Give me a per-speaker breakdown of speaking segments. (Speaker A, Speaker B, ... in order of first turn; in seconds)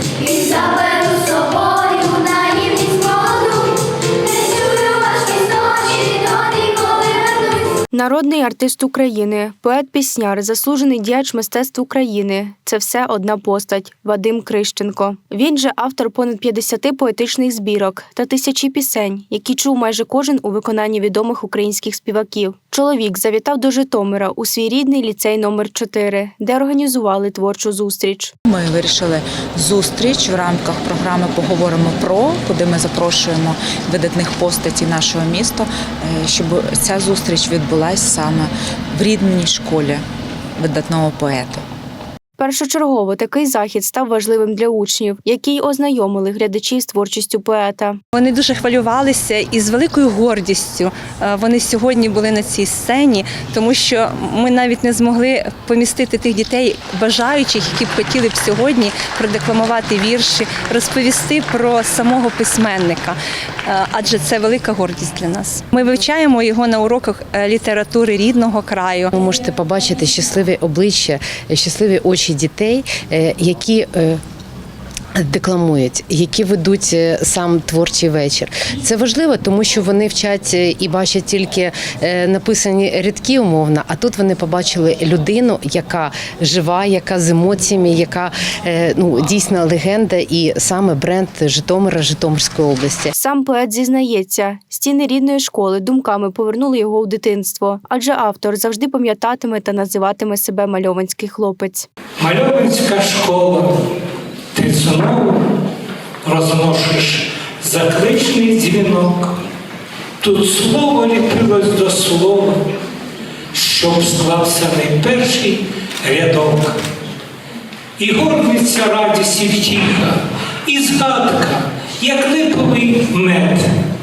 Speaker A: 0.3-3.4, 4.7-7.3, 7.9-28.3, 42.4-48.0, 93.1-101.9
Speaker B: 28.5-40.0, 40.6-41.6
Speaker C: 48.1-69.1
Speaker D: 69.1-74.2, 75.1-93.1
Speaker E: 102.2-103.7, 104.5-105.4, 106.2-109.3, 110.2-112.6, 113.5-116.8, 118.0-123.7